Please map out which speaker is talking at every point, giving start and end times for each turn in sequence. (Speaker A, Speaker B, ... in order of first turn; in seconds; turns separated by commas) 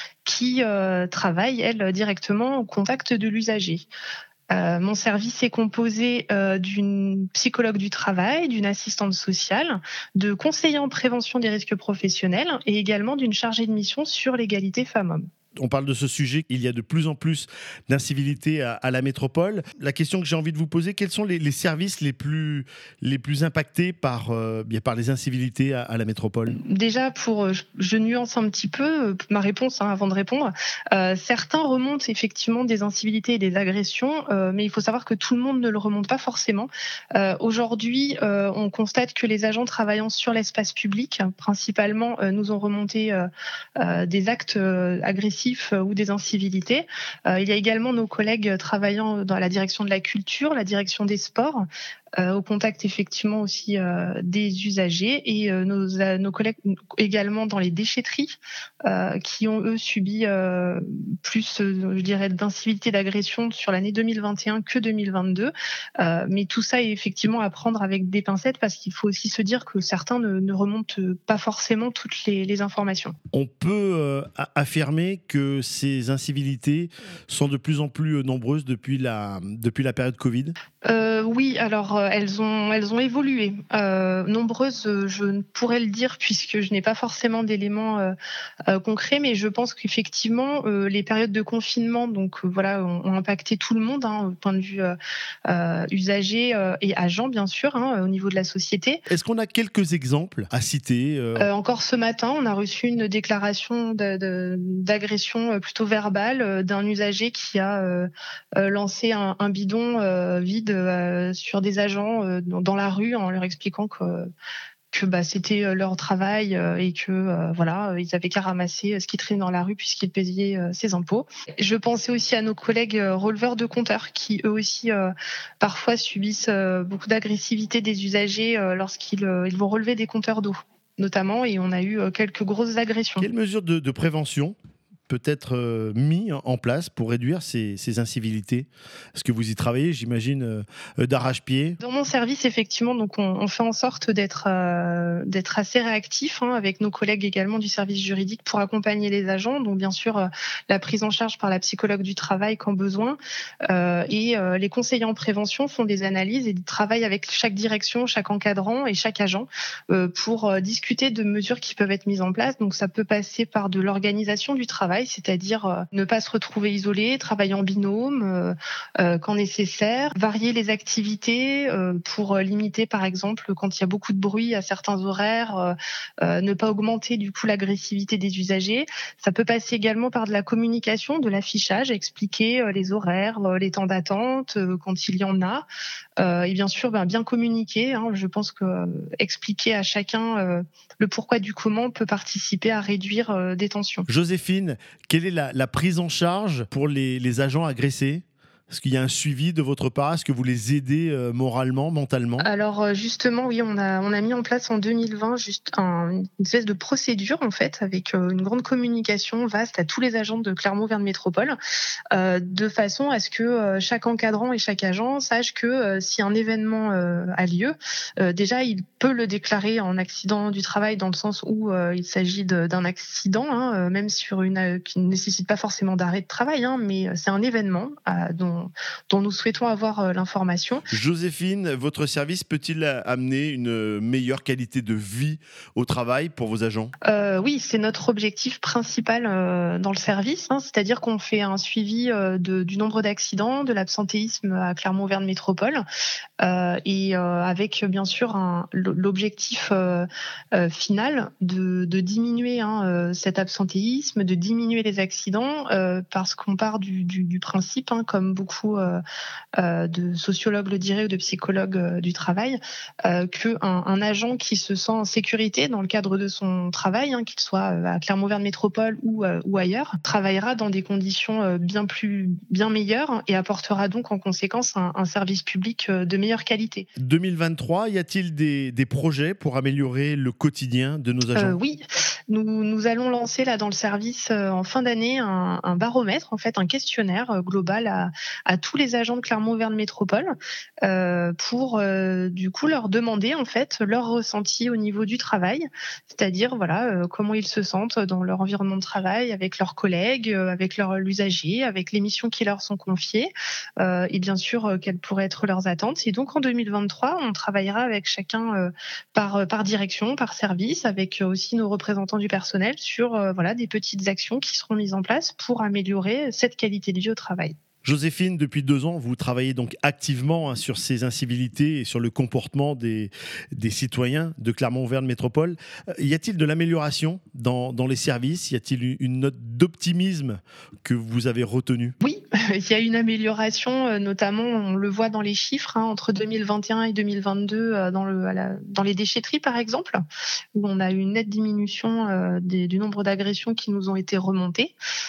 Speaker A: 0.2-3.9, Speaker A: 4.5-15.2, Speaker B: 15.6-26.6, Speaker A: 26.5-51.6, Speaker A: 52.2-73.1, Speaker B: 73.3-80.5, Speaker A: 80.8-88.1, Speaker A: 88.7-95.0, Speaker A: 95.5-99.0, Speaker B: 99.1-101.5, Speaker A: 101.3-114.3, Speaker A: 114.9-133.3, Speaker B: 133.2-134.6, Speaker B: 135.1-141.8, Speaker A: 141.8-185.7, Speaker A: 186.2-194.1, Speaker B: 194.1-202.5, Speaker A: 202.4-211.6, Speaker A: 212.1-230.8, Speaker B: 230.9-236.9, Speaker A: 237.0-245.8, Speaker A: 246.4-259.0, Speaker A: 259.6-276.9, Speaker B: 277.0-281.6, Speaker A: 281.3-317.6, Speaker B: 317.8-331.9, Speaker A: 332.0-340.0, Speaker A: 340.5-344.8